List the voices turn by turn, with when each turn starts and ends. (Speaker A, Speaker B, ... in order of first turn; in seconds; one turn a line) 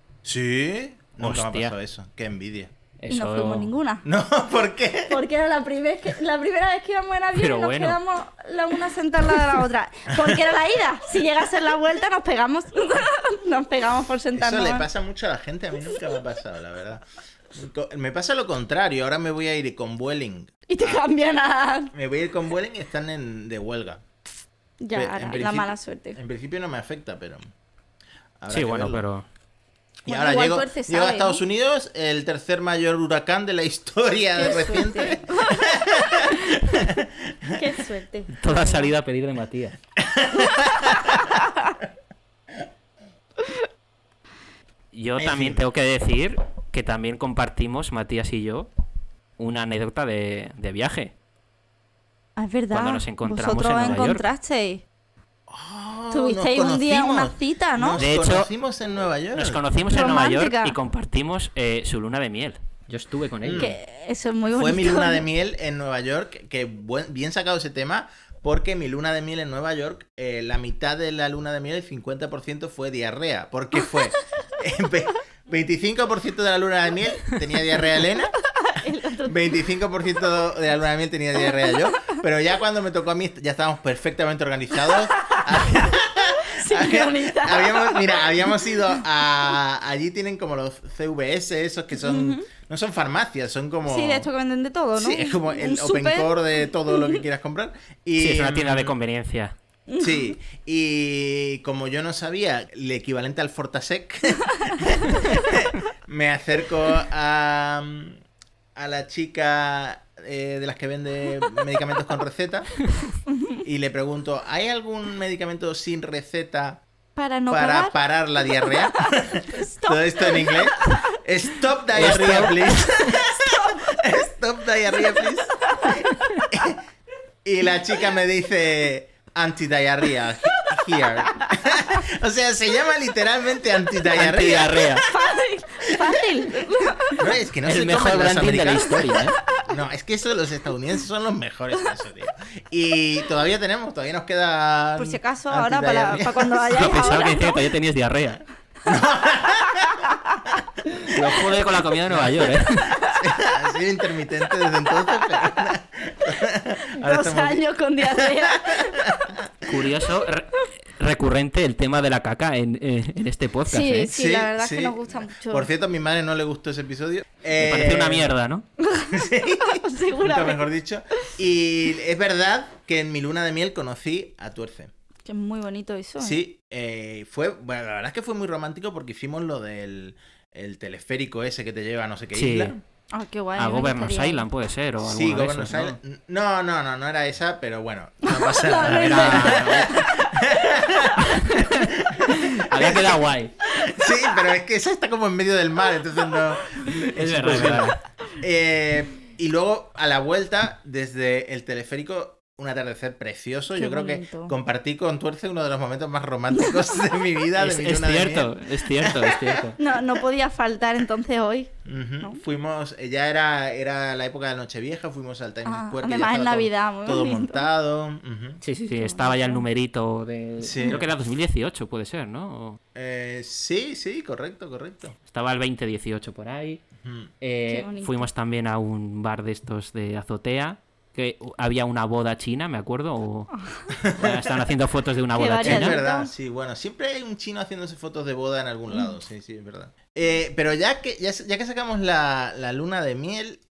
Speaker A: 0.2-2.7
Speaker B: 1.2-1.7
Speaker B: 3.0-3.7
Speaker C: 3.1-4.0
Speaker A: 4.0-5.2
Speaker C: 5.1-14.9
Speaker B: 7.3-8.0
Speaker A: 14.3-21.0
Speaker C: 20.7-21.9
Speaker A: 21.9-24.0
Speaker C: 24.8-26.2
Speaker A: 24.9-27.5
Speaker A: 28.4-29.0
Speaker B: 28.5-29.2
Speaker A: 30.1-37.6
Speaker C: 30.1-31.4
Speaker C: 34.4-36.6
Speaker C: 37.5-38.9
Speaker B: 38.3-39.8
Speaker A: 40.0-41.1
Speaker C: 41.1-41.7
Speaker B: 44.9-48.7
Speaker A: 45.2-45.6
Speaker B: 49.4-51.1
Speaker C: 52.4-54.8
Speaker B: 52.7-54.2
Speaker A: 55.5-59.6
Speaker C: 56.1-58.0
Speaker B: 58.0-58.5
Speaker B: 59.3-63.7
Speaker C: 59.9-60.8
Speaker A: 63.4-63.8
Speaker C: 63.5-65.2
Speaker A: 64.5-78.3
Speaker C: 78.6-79.5
Speaker A: 79.2-94.3
Speaker C: 85.1-88.6
Speaker C: 92.0-92.5
Speaker C: 93.8-96.3
Speaker A: 95.0-98.9
Speaker C: 96.9-97.2
Speaker B: 98.2-99.5
Speaker C: 99.9-100.3
Speaker A: 100.0-108.2
Speaker A: 108.8-112.8
Speaker C: 113.3-113.6
Speaker A: 113.6-116.8
Speaker C: 117.2-118.0
Speaker A: 117.5-126.8
Speaker C: 118.6-121.0
Speaker B: 121.9-123.2
Speaker C: 123.4-123.9
Speaker C: 125.5-126.1
Speaker A: 127.4-135.0
Speaker C: 130.6-131.8
Speaker B: 134.1-135.1
Speaker C: 134.9-137.2
Speaker A: 137.2-147.0
Speaker B: 137.6-139.4
Speaker C: 145.0-147.6
Speaker B: 146.7-148.4
Speaker A: 148.8-150.1
Speaker C: 149.7-150.4
Speaker B: 151.1-152.9
Speaker A: 152.1-157.6
Speaker C: 157.0-159.1
Speaker A: 158.2-159.5
Speaker B: 159.7-164.1
Speaker C: 163.7-165.7
Speaker A: 164.1-168.3
Speaker B: 167.6-168.7
Speaker C: 168.8-170.6
Speaker A: 169.1-174.9
Speaker C: 175.2-176.4
Speaker A: 176.2-182.8
Speaker B: 182.3-182.7
Speaker C: 183.1-184.4
Speaker B: 183.6-186.0
Speaker A: 185.0-209.7
Speaker C: 188.2-190.1
Speaker B: 188.8-190.1
Speaker C: 191.3-191.5
Speaker B: 191.3-193.5
Speaker B: 197.1-198.0
Speaker C: 203.7-204.5
Speaker B: 207.6-209.8
Speaker C: 209.8-212.4
Speaker A: 211.8-218.6
Speaker C: 215.6-217.7
Speaker B: 218.6-222.8
Speaker C: 218.9-219.6
Speaker A: 220.6-221.1
Speaker A: 222.9-225.2
Speaker B: 225.3-226.8
Speaker A: 227.0-227.3
Speaker B: 227.4-236.0
Speaker C: 227.7-228.3
Speaker A: 234.0-234.5
Speaker C: 235.3-236.3
Speaker A: 235.6-243.6